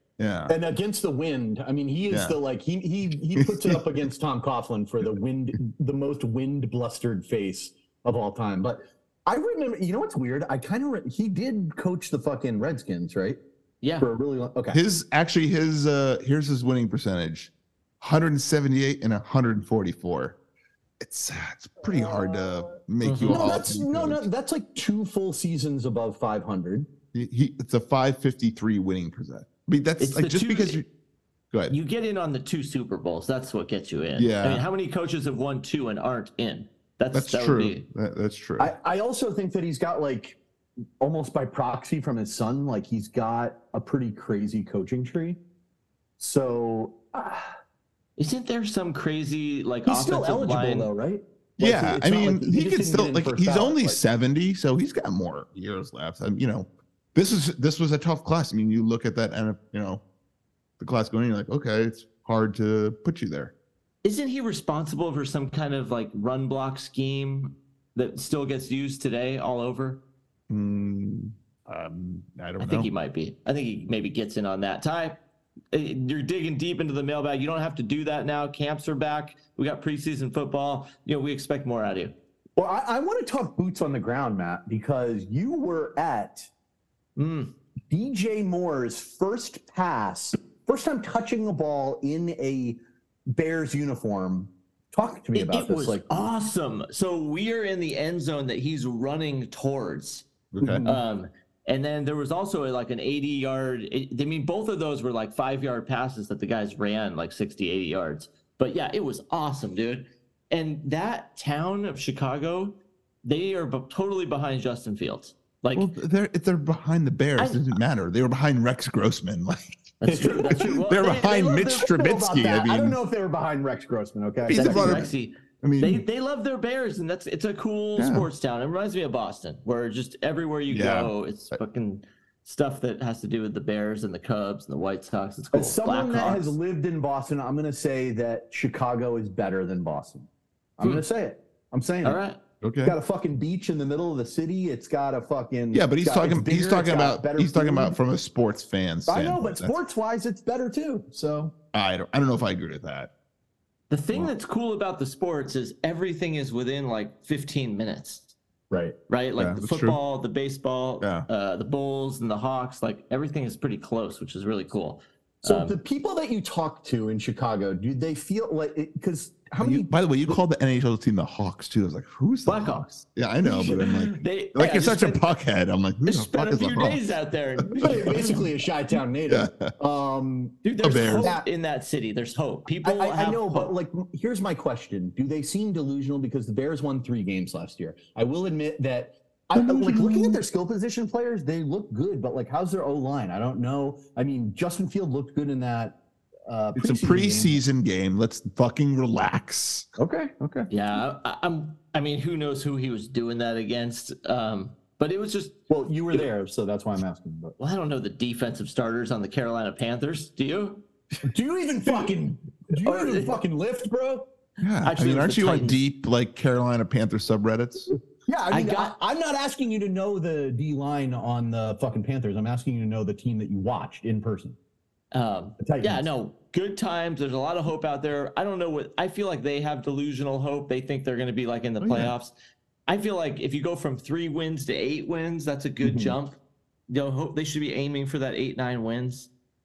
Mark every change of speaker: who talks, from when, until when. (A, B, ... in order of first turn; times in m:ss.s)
0:00.2-0:00.5 A
0:00.5-0:13.4 B
0:02.1-0:02.4 A
0:03.4-0:03.8 A
0:13.8-0:14.1 C
0:14.0-0:14.8 B
0:14.7-0:20.4 A
0:21.0-0:24.2 A
0:21.9-0:22.4 B
0:23.0-0:23.6 C
0:23.2-0:26.9 B
0:27.1-0:30.9 A
0:30.0-0:30.8 C
0:31.7-0:37.8 C
0:34.2-0:34.7 A
0:37.1-0:38.7 A
0:38.6-0:40.4 B
0:41.0-0:45.4 B
0:46.2-0:47.5 B
0:48.2-0:50.9 C
0:49.9-0:54.0 B
0:51.6-1:00.0 A
1:00.8-1:03.5 A
1:04.0-1:10.0 C
1:10.5-1:12.9 A
1:12.6-1:15.2 C
1:15.7-1:22.1 C
1:22.6-1:26.5 B
1:27.2-1:27.5 C
1:27.9-1:32.8 B
1:33.3-1:36.2 B
1:35.3-1:40.3 C
1:40.5-1:40.8 A
1:40.6-1:41.0 B
1:40.8-1:55.9 C
1:55.7-1:59.8 A
1:57.4-1:57.7 C
2:00.0-2:01.9 C
2:00.1-2:00.8 B
2:00.9-2:03.0 A
2:01.8-2:05.1 B
2:04.5-2:06.0 A
2:04.5-2:16.6 C
2:08.0-2:08.3 A
2:10.7-2:11.6 A
2:15.5-2:22.2 B
2:20.8-2:21.0 C
2:22.0-2:22.4 C
2:22.6-2:23.0 A
2:22.8-2:28.0 B
2:25.7-2:29.8 A
2:29.1-2:31.5 B
2:31.7-2:33.1 A
2:33.9-2:38.3 C
2:38.7-2:39.0 B
2:39.1-2:45.8 C
2:39.4-2:40.0 A
2:41.0-2:41.3 A
2:45.4-2:49.9 B
2:49.6-2:57.2 A
2:52.4-2:52.9 C
2:53.4-2:55.3 C
2:56.0-2:58.5 C
2:57.8-3:00.6 B
2:59.3-2:59.7 A
3:00.6-3:03.8 C
3:00.8-3:01.4 A
3:01.2-3:01.4 B
3:02.8-3:16.0 B
3:09.5-3:10.4 A
3:16.5-3:17.6 B
3:16.8-3:19.9 A
3:20.0-3:20.7 B
3:20.7-3:25.6 C
3:25.7-3:27.6 B
3:27.6-3:30.8 C
3:31.3-3:34.3 B
3:32.8-3:33.4 C
3:34.6-3:37.9 A
3:34.8-3:35.8 C
3:38.3-3:44.6 B
3:38.5-3:38.9 C
3:45.1-3:52.3 C
3:45.6-3:46.0 B
3:51.8-3:52.1 A
3:52.9-3:56.4 C
3:55.8-3:56.2 B
3:56.9-3:59.3 C